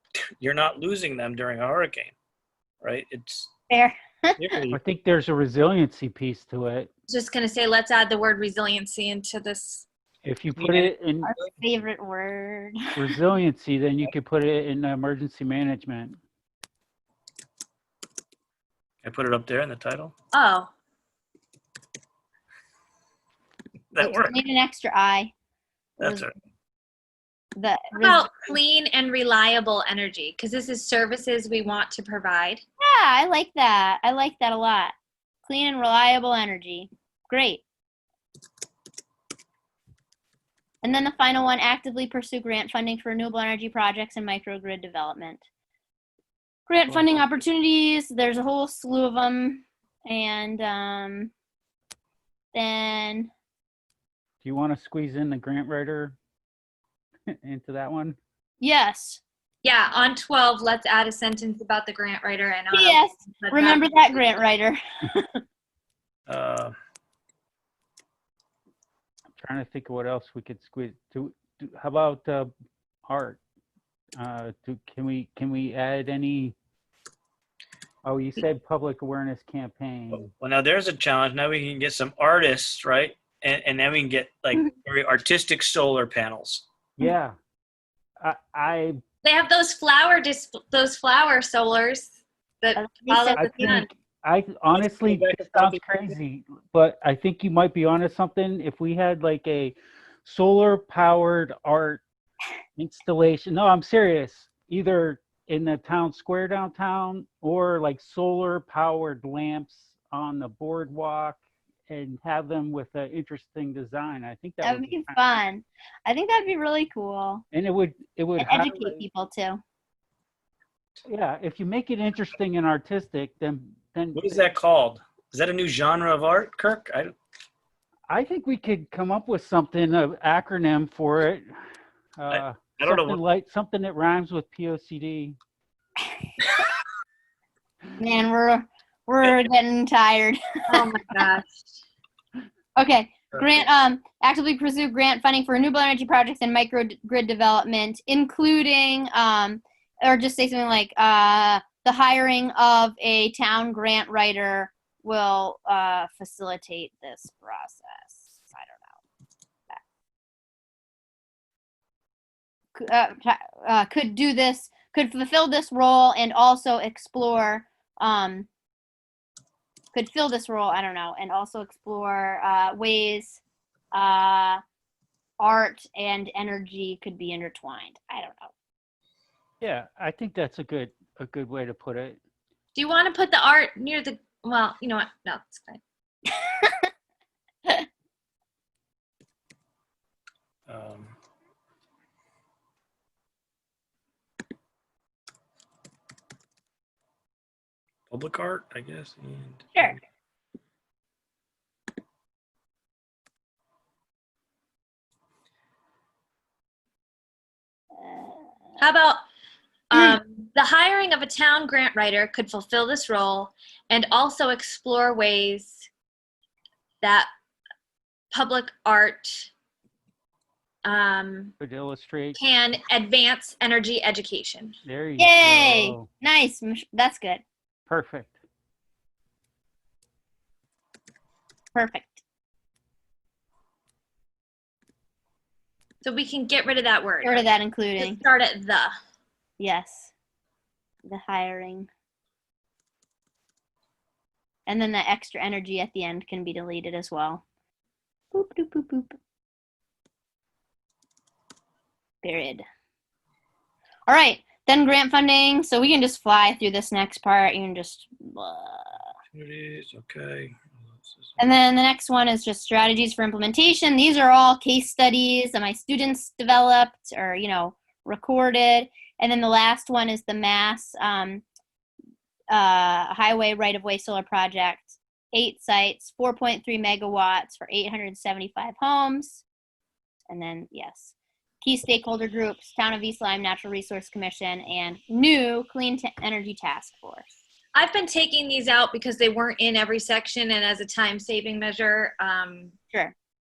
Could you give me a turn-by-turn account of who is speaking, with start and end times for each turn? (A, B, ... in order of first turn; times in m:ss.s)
0:00.2-0:02.1 A
0:02.8-0:03.5 A
0:03.7-0:04.6 B
0:04.4-0:04.8 A
0:04.7-0:06.9 C
0:07.1-0:09.8 D
0:10.2-0:11.3 C
0:11.6-0:12.9 B
0:13.0-0:16.2 C
0:19.0-0:20.1 A
0:20.3-0:20.7 D
0:23.9-0:24.4 A
0:24.0-0:25.3 B
0:26.0-0:26.3 A
0:26.0-0:26.3 B
0:27.5-0:28.3 B
0:27.9-0:32.6 D
0:32.8-0:34.9 B
0:35.4-0:37.6 B
0:40.8-0:45.4 B
0:46.7-0:51.3 B
0:46.9-0:47.2 C
0:52.5-0:53.3 B
0:54.4-0:56.2 C
0:57.4-0:58.2 C
0:58.6-0:59.2 B
0:59.6-1:04.3 D
1:02.7-1:05.4 B
1:06.3-1:06.7 A
1:09.4-1:12.5 C
1:13.1-1:13.4 C
1:14.2-1:16.5 C
1:18.0-1:20.3 C
1:20.1-1:26.6 A
1:27.0-1:27.3 C
1:28.2-1:29.0 C
1:29.2-1:33.9 D
1:32.8-1:33.8 B
1:33.4-1:42.0 C
1:34.7-1:36.1 A
1:42.8-1:55.3 C
1:54.6-1:57.4 B
1:57.5-1:59.0 C
1:58.4-1:59.6 B
2:01.0-2:04.4 C
2:04.1-2:07.1 A
2:08.1-2:11.6 C
2:12.2-2:15.4 C
2:12.3-2:13.2 A
2:18.0-2:20.8 B
2:20.7-2:21.7 D
2:22.8-2:39.0 B
2:42.8-2:48.5 B
2:49.9-2:53.4 B
2:53.9-2:54.6 B
2:55.4-2:58.5 B
2:59.6-3:02.2 C
3:02.7-3:05.8 D
3:06.4-3:06.9 B
3:10.7-3:11.1 A
3:18.1-3:20.0 A
3:28.0-3:28.4 B
3:28.8-3:29.2 D
3:29.9-3:35.9 D
3:29.9-3:30.2 B
3:37.0-3:37.3 D
3:38.3-3:39.5 D
3:40.8-3:41.5 D
3:41.6-3:42.4 C
3:42.3-3:44.7 D
3:44.8-3:46.1 C
3:45.2-3:47.4 B
3:47.9-3:48.4 C
3:51.7-3:52.2 B
3:56.0-3:58.9 D
3:57.2-3:58.2 B
3:59.6-4:00.1 B
4:01.0-4:01.9 B
4:04.7-4:07.4 B
4:08.3-4:09.2 B
4:12.2-4:12.6 B
4:14.1-4:19.0 B
4:19.3-4:21.4 A
4:21.4-4:31.4 B
4:32.5-4:39.4 B
4:40.3-4:47.3 B
4:47.7-4:52.8 D